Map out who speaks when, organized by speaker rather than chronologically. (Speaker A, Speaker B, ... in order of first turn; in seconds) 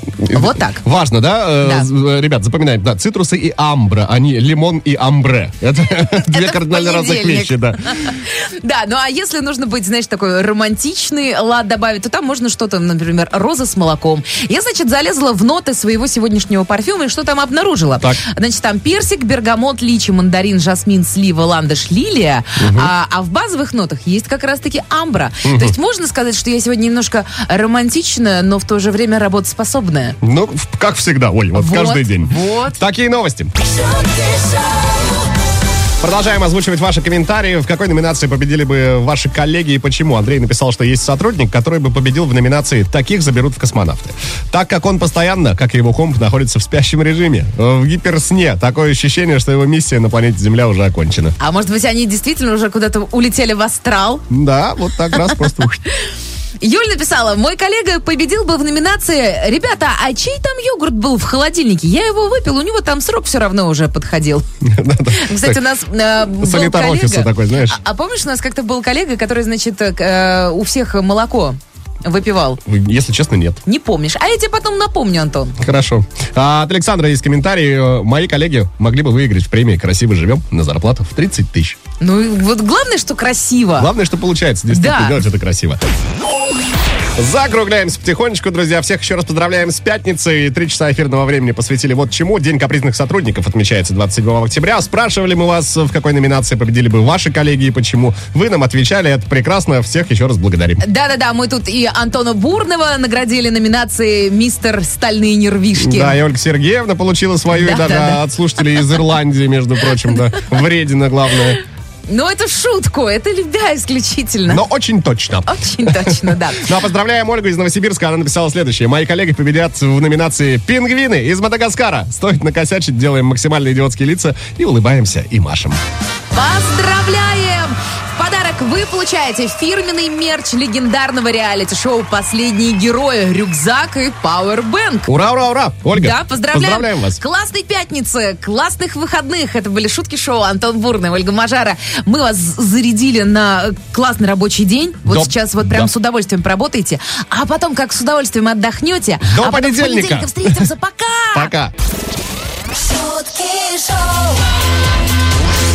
Speaker A: 0.2-8.2, 22.6-22.9, 25.4-25.8, 30.2-33.5, 36.0-51.4, 54.3-55.8, 64.6-65.6, 66.4-67.8, 72.7-73.6, 75.6-81.8, 83.8-85.8, 87.2-100.8, 105.8-111.6, 114.5-125.8, 135.1-137.2, 145.1-145.9, 149.2-150.7, 151.3-151.7
Speaker B: 0.3-0.8, 1.6-1.9, 6.1-30.2, 31.6-32.8, 51.4-54.3, 55.1-55.4, 56.6-64.5, 65.1-72.6, 73.7-75.6, 82.0-83.9, 84.7-85.2, 100.8-106.2, 107.5-108.2, 112.1-114.6, 115.5-116.8, 126.3-135.1, 135.9-151.5
Speaker C: 33.9-34.7, 152.8-154.4